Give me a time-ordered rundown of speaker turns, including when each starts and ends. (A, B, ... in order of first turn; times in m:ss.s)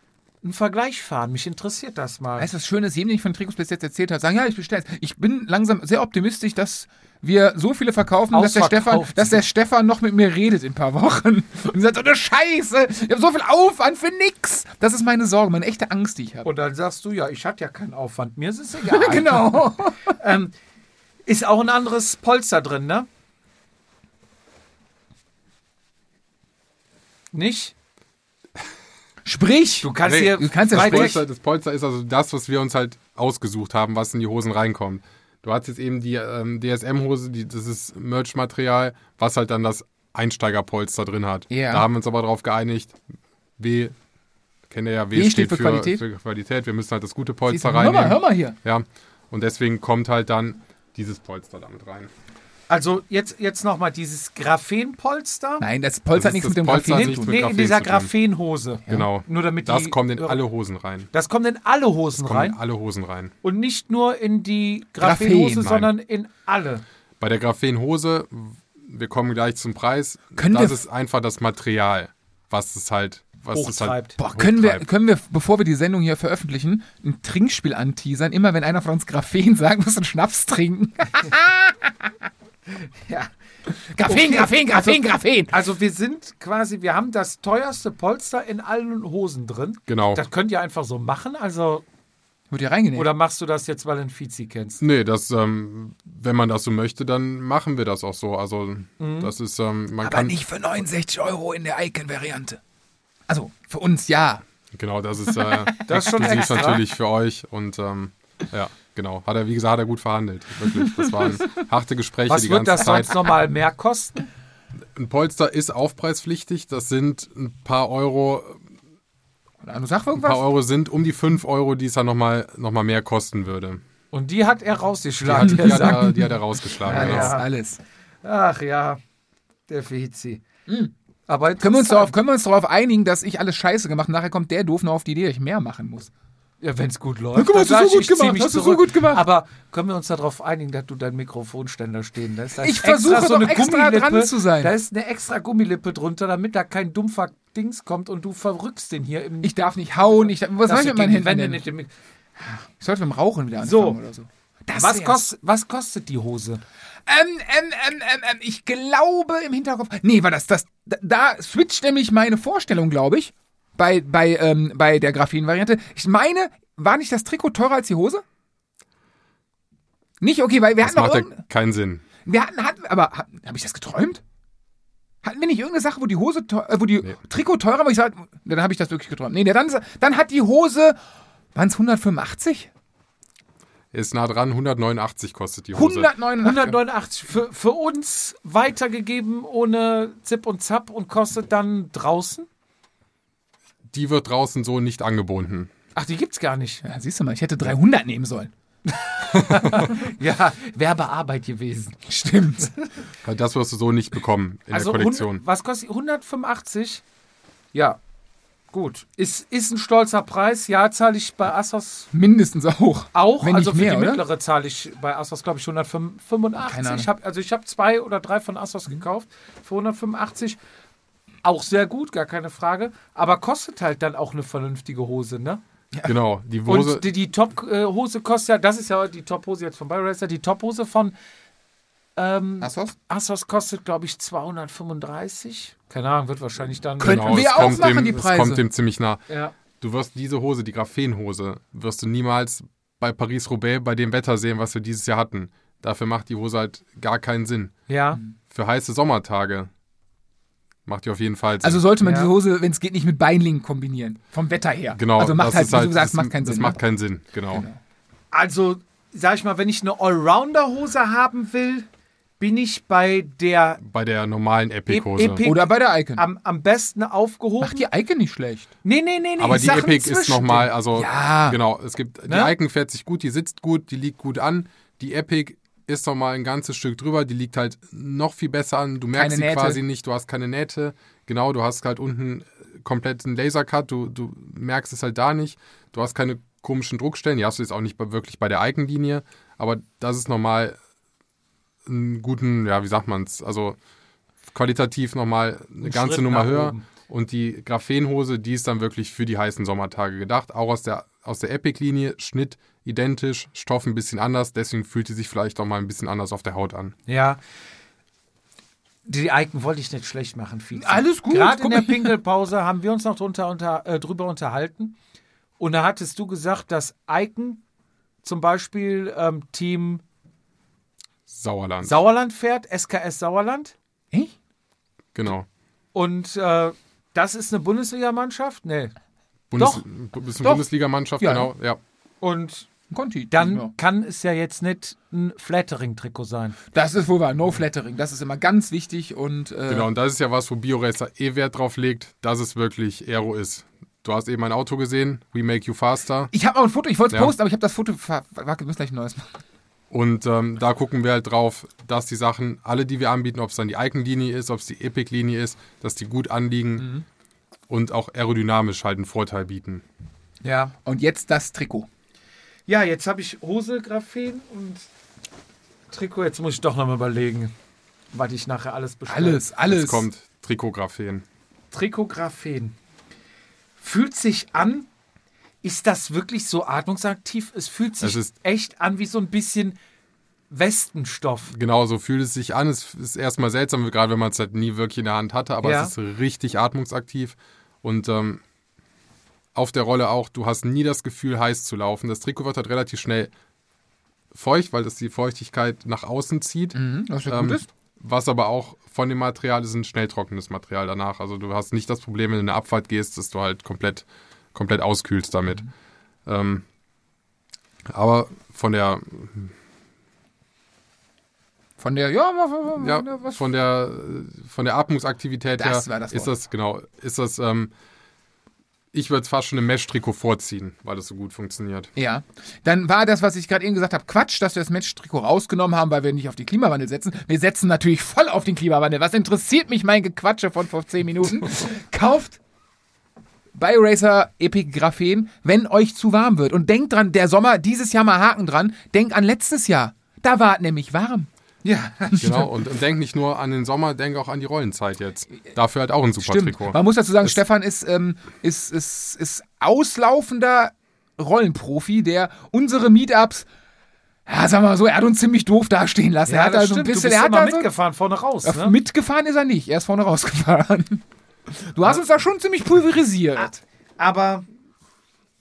0:00.4-0:02.5 A
0:02.4-0:16.5 B
0:08.3-0:09.4 A
0:16.4-0:20.6 A
0:18.8-0:20.2 B
0:21.3-0:23.1 A
0:27.3-0:27.8 A
0:29.2-0:31.2 B
0:29.8-0:31.2 A
0:30.0-0:43.0 C
0:41.5-0:41.9 B
0:43.6-0:44.0 C
0:44.7-0:52.1 C
0:45.1-0:46.0 B
0:47.5-0:48.6 B
0:52.7-0:55.7 A
0:55.6-0:57.4 B
0:56.2-0:58.1 C
0:56.9-1:00.4 A
0:58.9-1:01.1 C
1:01.1-1:02.6 A
1:02.1-1:03.3 C
1:03.4-1:06.8 A
1:05.0-1:05.9 B
1:07.2-1:14.9 C
1:10.4-1:10.8 B
1:13.5-1:14.2 A
1:14.2-1:22.1 B
1:23.0-1:23.3 A
1:23.8-1:25.5 B
1:24.0-1:31.8 A
1:29.9-1:30.2 C
1:32.5-1:33.1 B
1:33.0-1:34.8 A
1:34.8-1:40.4 C
1:39.0-1:39.3 A
1:40.0-1:42.6 B
1:43.3-1:44.4 B
1:44.7-1:53.2 C
1:45.4-1:46.6 B
1:45.9-1:46.8 A
1:50.7-1:51.5 B
1:52.3-1:54.2 A
1:55.0-1:58.6 C
1:59.6-2:00.4 B
2:00.2-2:03.8 C
2:04.1-2:06.1 A
2:05.2-2:07.4 C
2:05.4-2:07.8 B
2:06.9-2:07.5 A
2:08.2-2:09.0 A
2:09.7-2:10.4 A
2:10.7-2:10.9 B
2:11.3-2:12.1 A
2:11.6-2:16.1 B
2:16.6-2:29.5 A
2:17.4-2:19.2 B
2:22.6-2:24.7 B
2:29.4-2:31.6 B
2:30.2-2:31.9 A
2:32.8-2:35.2 B
2:33.6-2:34.0 A
2:34.7-2:36.6 A
2:37.1-2:48.2 B
2:50.2-2:51.4 B
2:50.8-2:52.0 C
2:52.2-2:54.2 B
2:55.2-3:01.0 B
3:01.6-3:02.7 B
3:03.9-3:06.1 C
3:05.7-3:06.8 B
3:06.4-3:12.5 A
3:13.9-3:15.7 C
3:16.0-3:16.8 A
3:16.8-3:18.5 B
3:18.8-3:22.0 A
3:22.1-3:22.7 B
3:23.2-3:25.4 C
3:24.7-3:27.0 A
3:27.7-3:28.0 A
3:28.7-3:32.1 A
3:32.1-3:34.2 B
3:33.1-3:40.6 A
3:36.7-3:37.1 B
3:41.4-3:45.6 A
3:46.1-3:47.1 C
3:46.7-3:51.2 A
3:52.2-3:58.1 A
3:52.6-3:53.0 B
3:57.0-3:58.6 B
3:57.1-3:59.2 C
3:59.3-3:59.6 A
3:59.8-4:07.7 C
4:07.9-4:08.2 A
4:08.5-4:09.7 C
4:10.9-4:11.8 C
4:11.6-4:16.8 B
4:12.0-4:12.3 A
4:14.9-4:17.6 C
4:18.3-4:21.9 A
4:22.4-4:23.8 A
4:23.8-4:25.4 C
4:24.9-4:27.9 A
4:25.4-4:26.3 B
4:27.6-4:28.7 B
4:28.8-4:30.7 A
4:29.4-4:50.8 C
4:29.4-4:31.6 B
4:32.3-4:32.6 A
4:39.1-4:39.8 B
4:51.9-4:53.8 C
4:54.5-5:06.9 C
4:55.8-4:56.9 A
5:07.1-5:07.4 A
5:09.1-5:15.0 A
5:10.8-5:12.2 B
5:15.6-5:17.6 A
5:18.2-5:20.0 A
5:21.3-5:22.0 C
5:21.8-5:23.8 A
5:25.2-5:25.5 C
5:25.9-5:28.9 A
5:29.5-5:31.8 C
5:29.6-5:29.8 A
5:31.2-5:31.5 B
5:32.2-5:32.7 A
5:32.9-5:33.7 B
5:33.3-5:36.6 A
5:36.7-5:39.9 B
5:39.7-5:46.3 C
5:46.3-5:49.4 B
5:49.9-5:56.9 C
5:57.7-5:59.8 C
6:00.4-6:00.7 A
6:00.8-6:01.9 B
6:02.7-6:04.9 A
6:05.9-6:07.5 A
6:08.1-6:09.4 A
6:09.1-6:10.1 B
6:09.7-6:11.2 C
6:11.7-6:12.8 A
6:13.8-6:14.9 A
6:15.6-6:19.8 A
6:18.0-6:18.3 C
6:20.5-6:21.5 A
6:21.5-6:28.4 C
6:25.6-6:25.9 A
6:29.6-6:33.3 C
6:34.3-6:45.7 C
6:36.8-6:37.7 B
6:46.3-6:46.6 C
6:47.9-6:49.5 C
6:51.8-6:53.4 B
6:52.8-6:57.7 C
6:55.6-6:56.3 B
6:58.9-7:01.9 C
7:02.0-7:12.4 B
7:13.6-7:21.3 B
7:21.6-7:22.2 A
7:22.1-7:22.5 B
7:22.2-7:27.4 C
7:26.2-7:33.5 B
7:34.3-7:37.7 B
7:36.3-7:38.8 A
7:38.4-7:43.6 B
7:43.4-7:44.4 A